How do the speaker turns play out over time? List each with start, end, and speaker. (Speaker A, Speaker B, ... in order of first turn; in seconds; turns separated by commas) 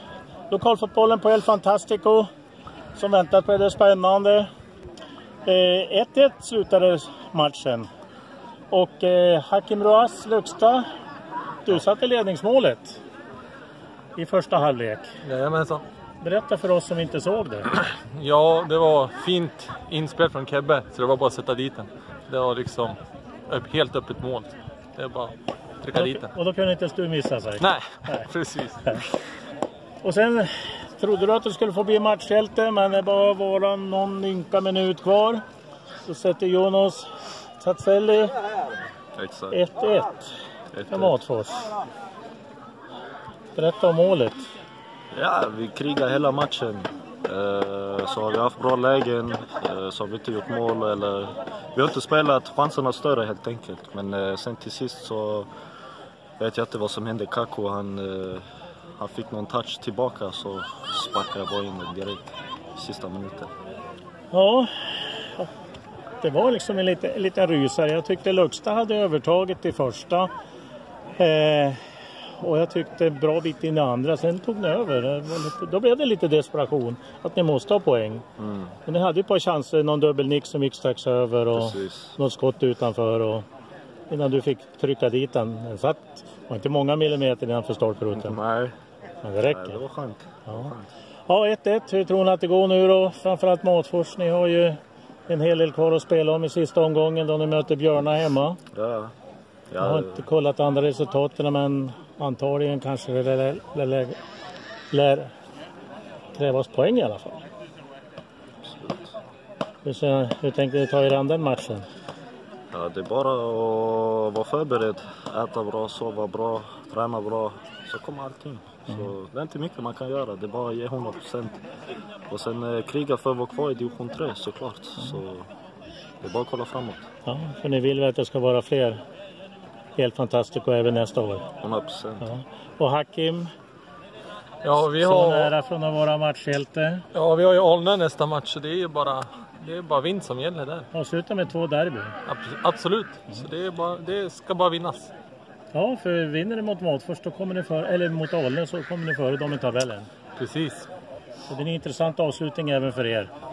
Speaker A: 0.5-2.3, Speaker A: 2.9-4.5, Speaker A: 5.4-7.9, Speaker A: 8.7-10.8, Speaker A: 11.6-13.0, Speaker A: 14.2-15.1, Speaker B: 15.2-15.8, Speaker A: 16.2-17.8, Speaker B: 17.9-26.3, Speaker A: 25.9-28.3, Speaker B: 27.6-29.2, Speaker A: 30.0-35.4, Speaker A: 36.0-38.3, Speaker C: 39.1-39.6, Speaker A: 39.5-40.3, Speaker C: 40.7-41.2, Speaker A: 40.9-41.7, Speaker A: 43.5-44.5, Speaker C: 45.1-55.5, Speaker C: 56.4-58.4, Speaker C: 59.0-63.5, Speaker A: 64.3-65.5, Speaker A: 66.2-70.3, Speaker A: 71.2-71.8, Speaker A: 72.4-78.2, Speaker C: 78.4-78.7, Speaker A: 78.8-83.4, Speaker C: 81.5-82.1, Speaker A: 84.1-88.4, Speaker C: 88.1-88.7, Speaker A: 89.2-89.8, Speaker C: 89.5-90.9, Speaker A: 90.5-90.7, Speaker A: 91.3-98.6, Speaker C: 98.7-99.1, Speaker C: 99.7-100.2, Speaker A: 99.8-104.2, Speaker A: 104.9-105.3, Speaker A: 106.3-107.4, Speaker C: 108.6-109.1, Speaker A: 109.8-111.9, Speaker C: 112.7-121.6, Speaker C: 122.3-125.5, Speaker C: 126.2-127.1, Speaker A: 127.2-129.0, Speaker A: 130.0-131.5, Speaker C: 131.6-132.3, Speaker A: 132.2-133.5, Speaker B: 134.6-135.5, Speaker A: 134.9-137.0, Speaker B: 137.1-140.9, Speaker A: 140.9-142.2, Speaker B: 142.2-145.1, Speaker A: 145.7-150.1, Speaker B: 150.4-150.9, Speaker A: 151.5-153.3